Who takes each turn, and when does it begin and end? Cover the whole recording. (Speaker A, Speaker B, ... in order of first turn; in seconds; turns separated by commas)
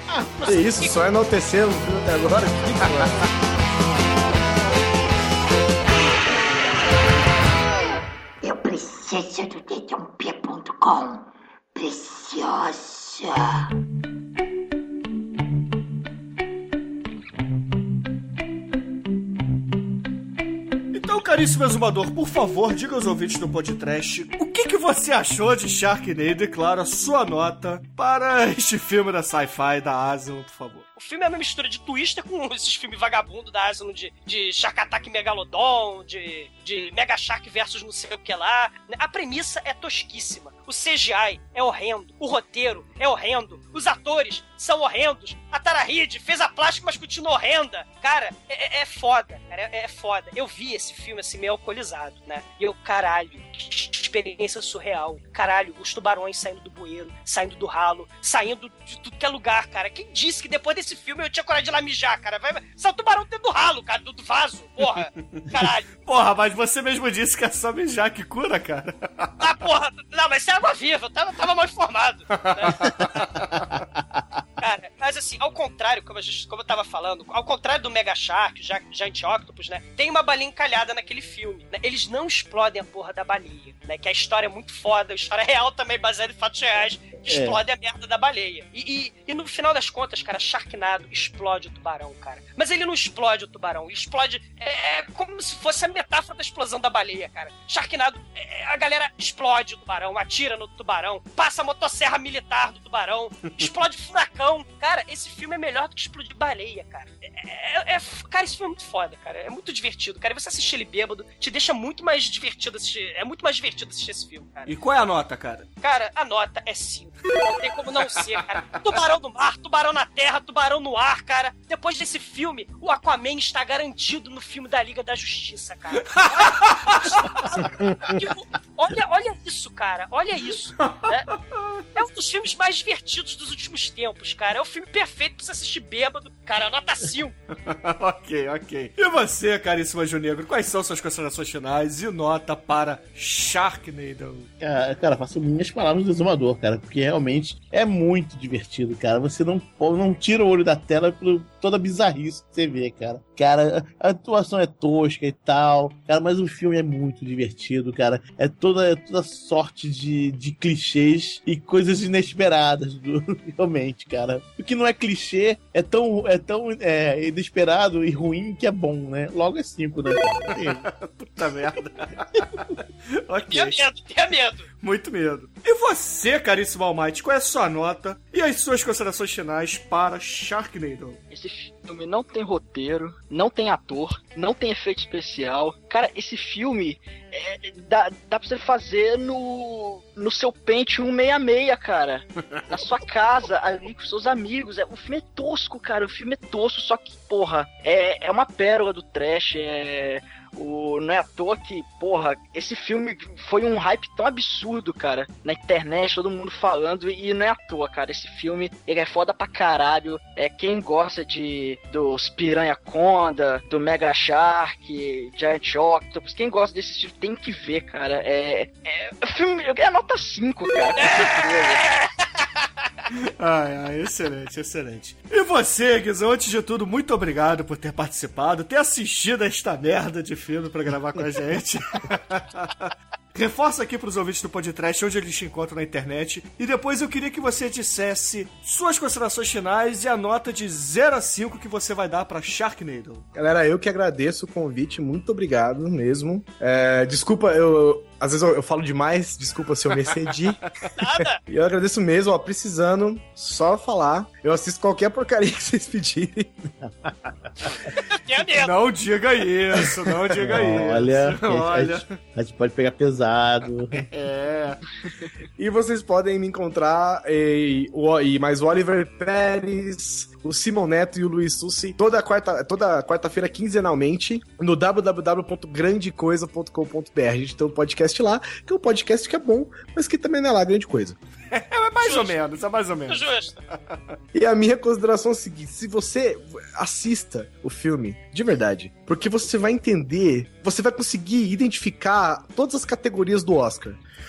Speaker A: 0.1-0.7, Speaker B: 0.4-1.0, Speaker C: 0.5-3.3, Speaker D: 8.4-13.5, Speaker E: 20.9-30.9, Speaker B: 31.0-65.9, Speaker E: 66.0-69.3, Speaker B: 69.4-72.9, Speaker E: 72.3-73.6, Speaker A: 74.0-74.2, Speaker B: 74.6-114.7, Speaker A: 87.2-87.6, Speaker E: 114.7-115.7, Speaker B: 115.8-131.3, Speaker E: 126.2-127.4, Speaker E: 130.8-131.7, Speaker B: 131.9-137.3, Speaker E: 137.6-144.5, Speaker A: 144.6-170.8, Speaker E: 170.1-173.8, Speaker B: 173.5-174.7, Speaker E: 174.8-181.2, Speaker F: 181.3-221.8, Speaker B: 221.0-222.7, Speaker E: 223.1-243.3, Speaker C: 243.3-256.5, Speaker B: 251.0-251.4, Speaker A: 256.8-257.5, Speaker B: 258.0-258.7, Speaker E: 258.6-262.2, Speaker A: 260.4-264.0, Speaker E: 263.9-264.9, Speaker C: 265.6-281.2, Speaker E: 281.5-284.2, Speaker B: 282.0-282.4, Speaker B: 283.1-283.5, Speaker C: 284.3-294.0